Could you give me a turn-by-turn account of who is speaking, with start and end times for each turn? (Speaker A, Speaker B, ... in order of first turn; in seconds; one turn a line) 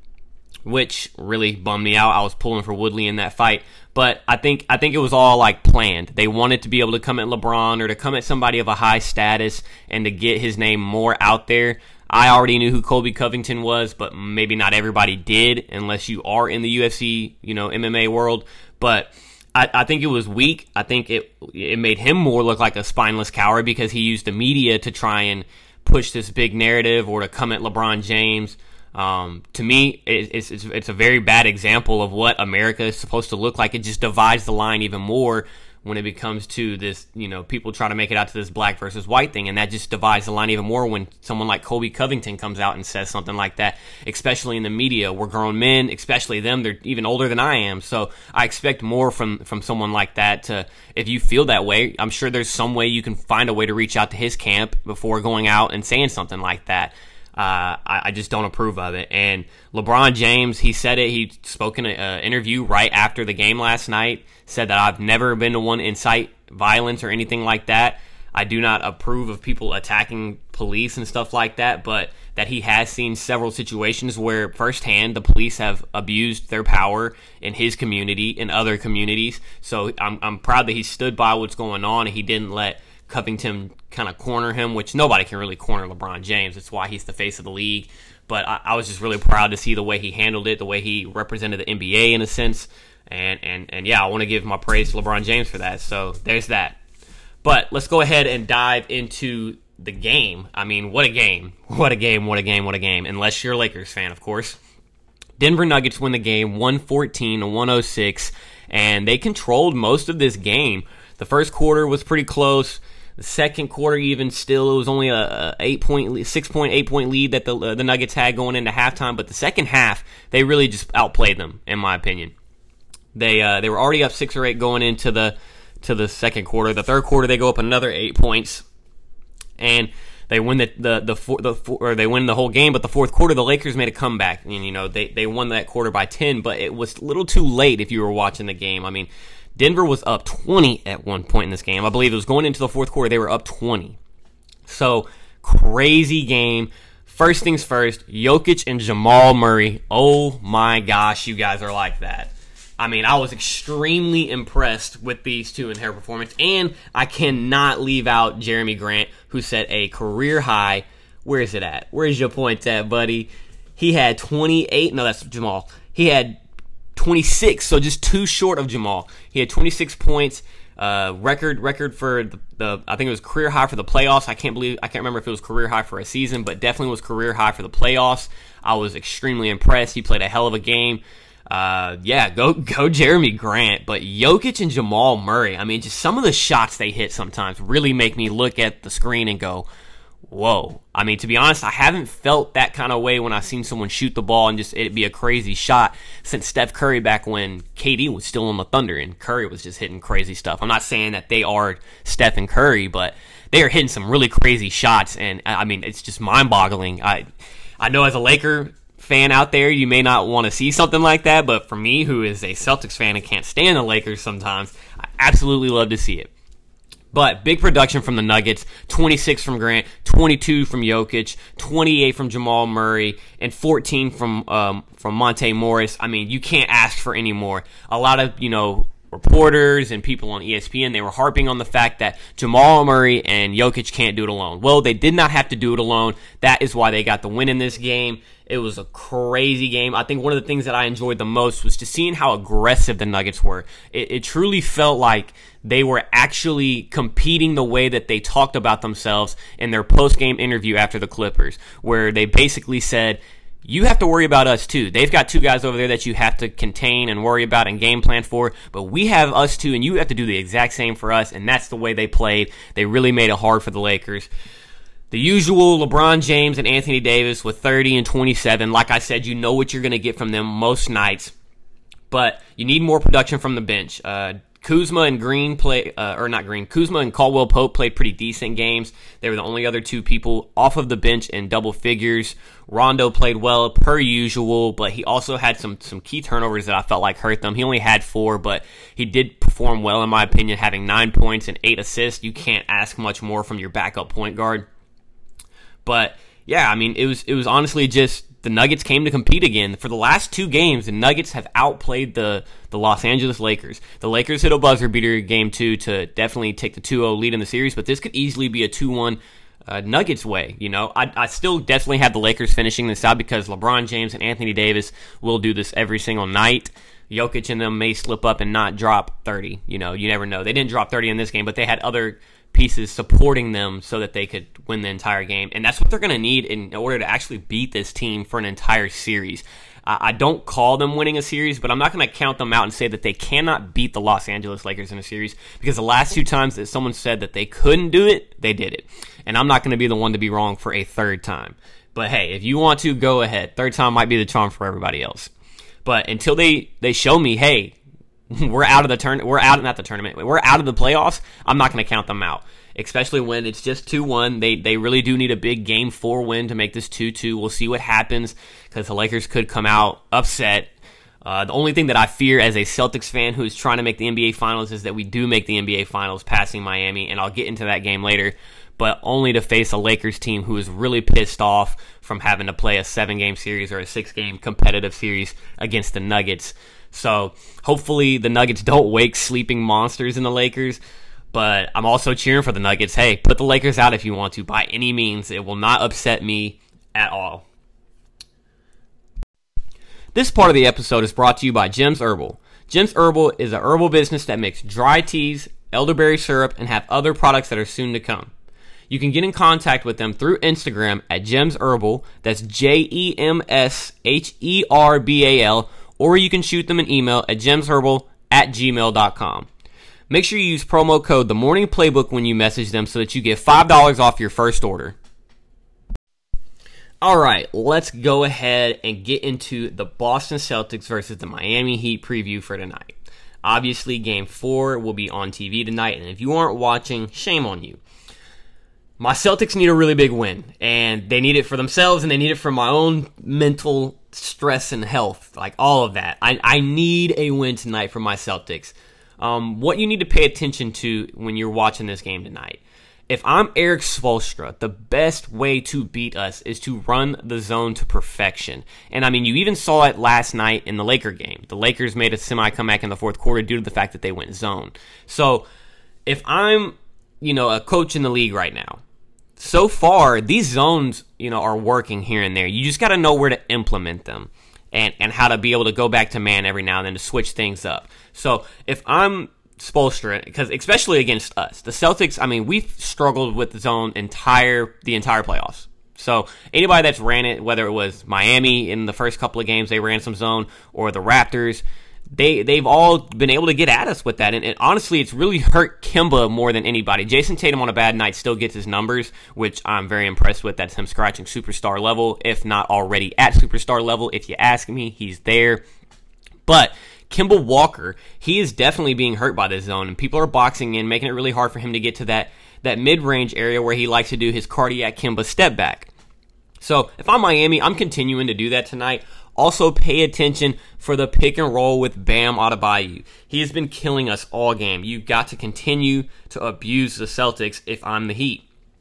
Speaker A: 0.7-96.8
Speaker A: 97.4-104.6
Speaker A: 105.4-122.3
Speaker A: 123.1-128.7
Speaker A: 129.6-144.0
Speaker A: 144.7-166.4
Speaker A: 167.0-189.7
Speaker A: 190.3-207.2
Speaker A: 207.8-216.3
Speaker A: 217.1-264.3
Speaker A: 265.1-271.3
Speaker A: 272.1-294.7
Speaker A: 295.9-345.3
Speaker A: 345.9-347.8
Speaker A: 348.3-360.7
Speaker A: 361.2-380.8
Speaker A: 381.3-387.4
Speaker A: 390.1-398.3
Speaker A: 398.9-409.5
Speaker A: 410.1-415.0
Speaker A: 417.0-427.8
Speaker A: 429.0-455.4
Speaker A: 456.1-458.8
Speaker A: 459.4-495.6
Speaker A: 496.5-505.9
Speaker A: 506.6-518.5